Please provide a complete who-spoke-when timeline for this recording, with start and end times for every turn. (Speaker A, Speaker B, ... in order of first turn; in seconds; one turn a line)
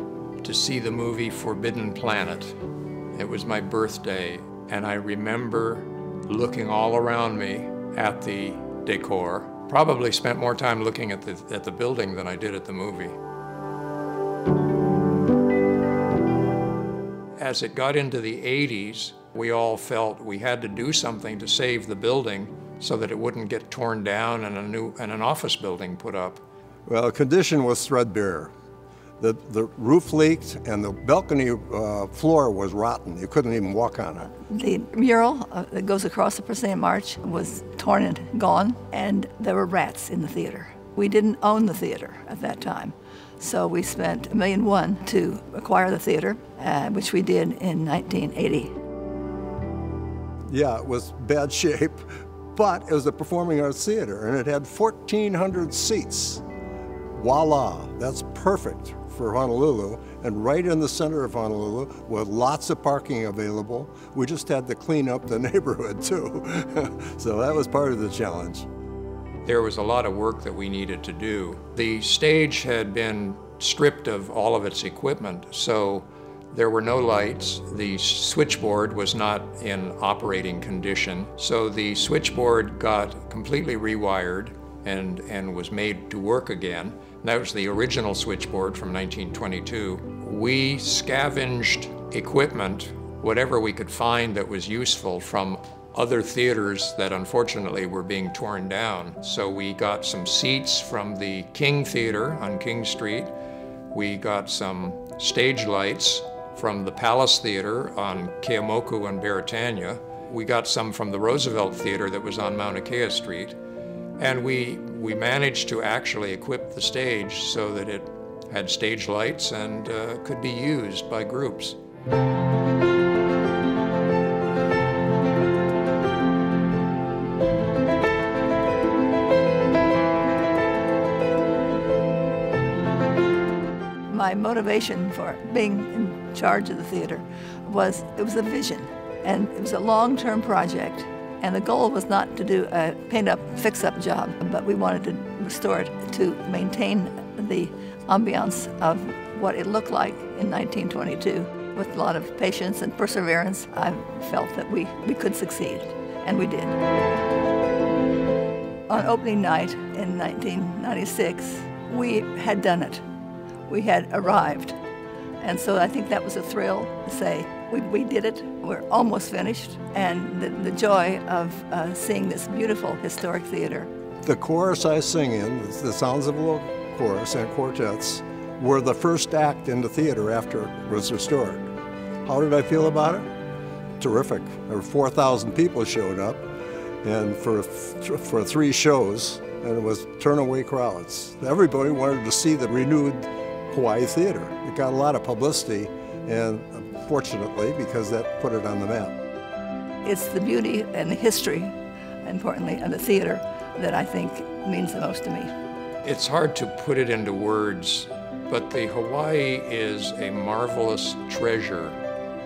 Speaker A: 0.4-2.6
Speaker A: 3.1-13.2
Speaker A: 17.4-26.4
Speaker B: 26.9-28.5
Speaker B: 29.2-34.3
Speaker C: 34.4-48.7
Speaker B: 50.5-56.4
Speaker B: 57.2-68.7
Speaker A: 69.5-103.3
Speaker A: 103.9-113.6
Speaker A: 114.2-121.8
Speaker C: 134.1-156.8
Speaker C: 158.9-163.0
Speaker C: 163.7-164.8
Speaker C: 165.4-173.9
Speaker B: 174.2-181.7
Speaker B: 182.2-183.3
Speaker B: 184.0-186.4
Speaker B: 187.0-199.2
Speaker C: 200.0-205.5
Speaker A: 206.0-212.0